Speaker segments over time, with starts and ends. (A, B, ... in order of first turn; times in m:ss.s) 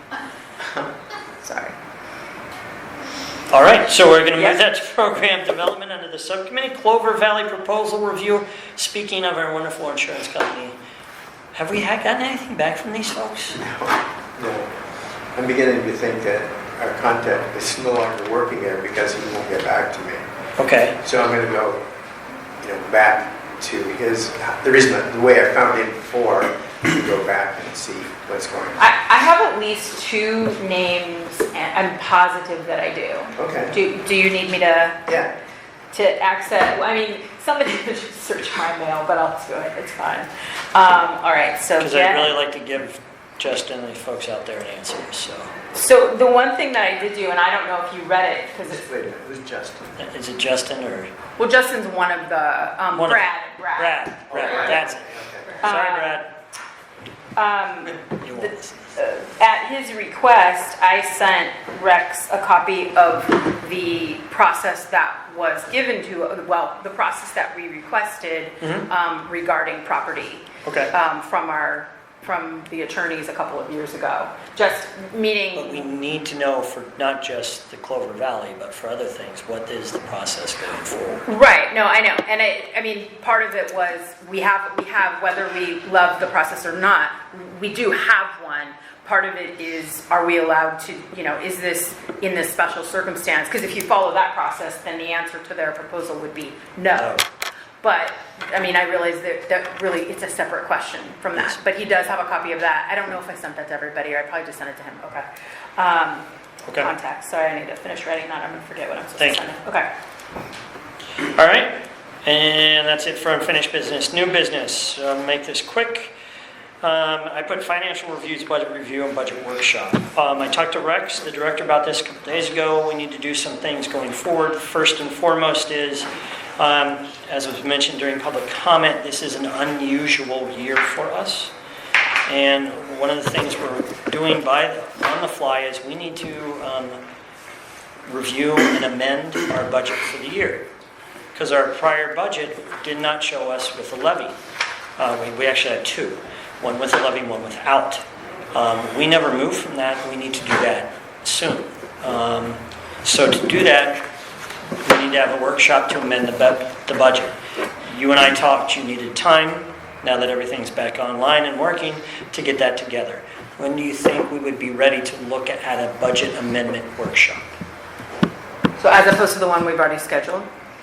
0:01.4-0:01.7 A
0:03.5-0:10.8 B
0:11.6-0:13.6 B
0:13.6-0:14.7 C
0:15.3-0:20.2 C
0:20.6-0:21.0 B
0:21.0-0:21.8 C
0:22.6-0:28.8 C
0:28.8-0:35.2 A
0:33.4-0:33.7 C
0:35.9-0:42.4 A
0:41.8-0:45.5 B
0:45.7-0:48.8 A
0:48.7-0:49.9 C
0:50.0-0:51.1 B
0:51.4-0:54.8 A
0:52.9-0:56.3 B
0:54.3-0:55.6 C
0:55.6-0:56.2 A
0:57.4-1:15.9 A
0:58.2-0:58.7 B
1:08.6-1:08.9 B
1:10.6-1:10.9 B
1:15.6-1:21.2 B
1:21.3-1:37.2 A
1:36.9-1:37.2 B
1:37.8-1:46.2 A
1:41.4-1:41.6 B
1:46.7-1:46.9 B
1:46.8-1:49.9 A
1:49.2-1:49.5 B
1:51.2-1:56.2 B
1:56.8-2:11.5 B
2:12.3-2:17.0 B
2:18.1-2:20.7 B
2:21.4-2:24.4 B
2:25.0-2:34.0 B
2:34.8-2:37.3 B
2:37.9-2:47.5 B
2:48.8-2:50.5 A